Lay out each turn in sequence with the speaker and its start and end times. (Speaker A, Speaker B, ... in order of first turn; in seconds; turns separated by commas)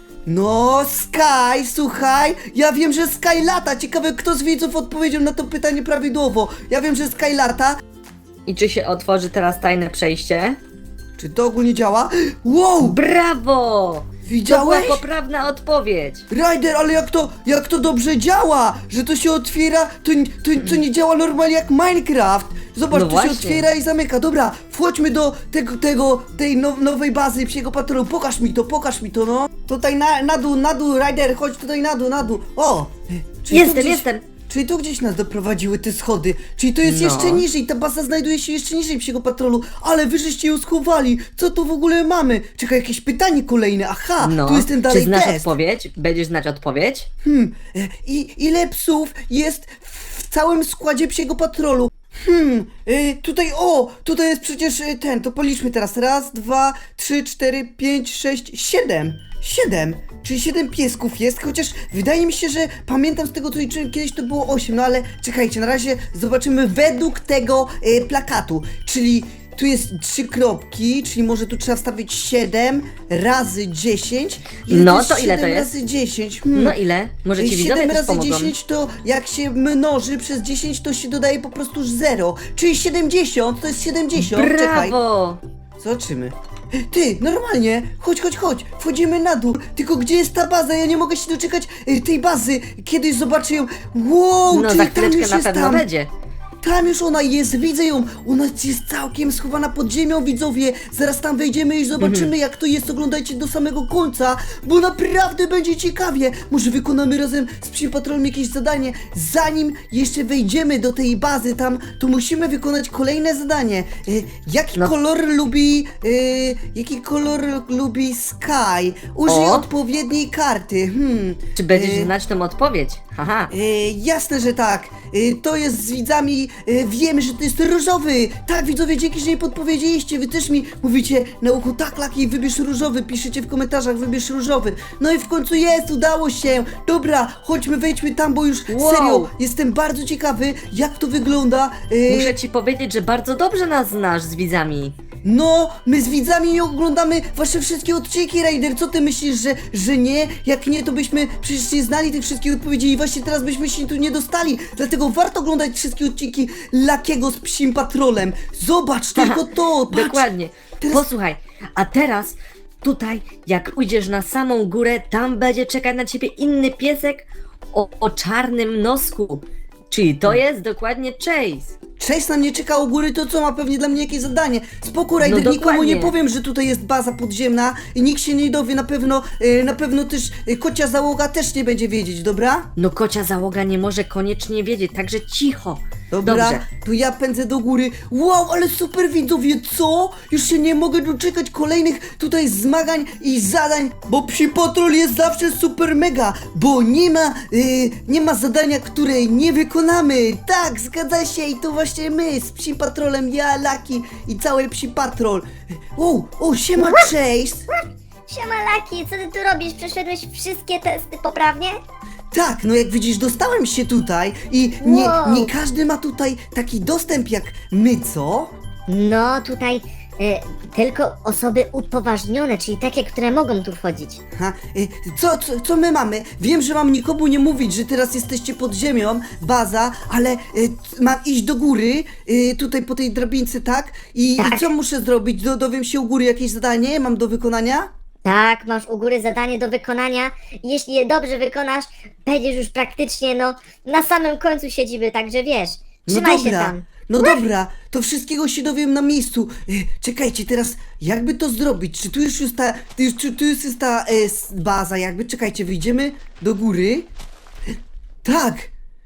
Speaker A: 0.2-7.8, Speaker B: 8.5-10.6, Speaker A: 11.2-13.0, Speaker B: 12.8-16.2, Speaker A: 14.2-15.0, Speaker A: 16.3-45.5, Speaker B: 22.9-23.6, Speaker B: 33.5-34.2, Speaker B: 36.8-37.4, Speaker B: 44.2-47.1, Speaker A: 47.2-76.8, Speaker B: 74.7-75.7, Speaker B: 76.5-78.5, Speaker A: 77.4-85.0, Speaker B: 84.2-85.4, Speaker A: 85.8-95.8, Speaker B: 94.5-96.1, Speaker A: 96.6-122.1, Speaker B: 102.0-102.3, Speaker B: 119.3-119.7, Speaker B: 121.5-123.5, Speaker A: 123.5-142.4, Speaker B: 138.7-139.3, Speaker B: 142.1-144.9, Speaker A: 145.2-160.3, Speaker B: 159.2-171.7, Speaker A: 160.8-161.1, Speaker A: 172.0-182.7, Speaker B: 175.2-176.1, Speaker B: 182.8-186.6, Speaker A: 186.1-207.7, Speaker C: 208.3-211.8, Speaker A: 212.3-218.5, Speaker C: 214.8-215.5, Speaker C: 218.9-224.2, Speaker A: 224.3-237.9, Speaker C: 234.4-234.7, Speaker C: 238.2-247.2, Speaker A: 246.1-257.1, Speaker A: 258.2-258.7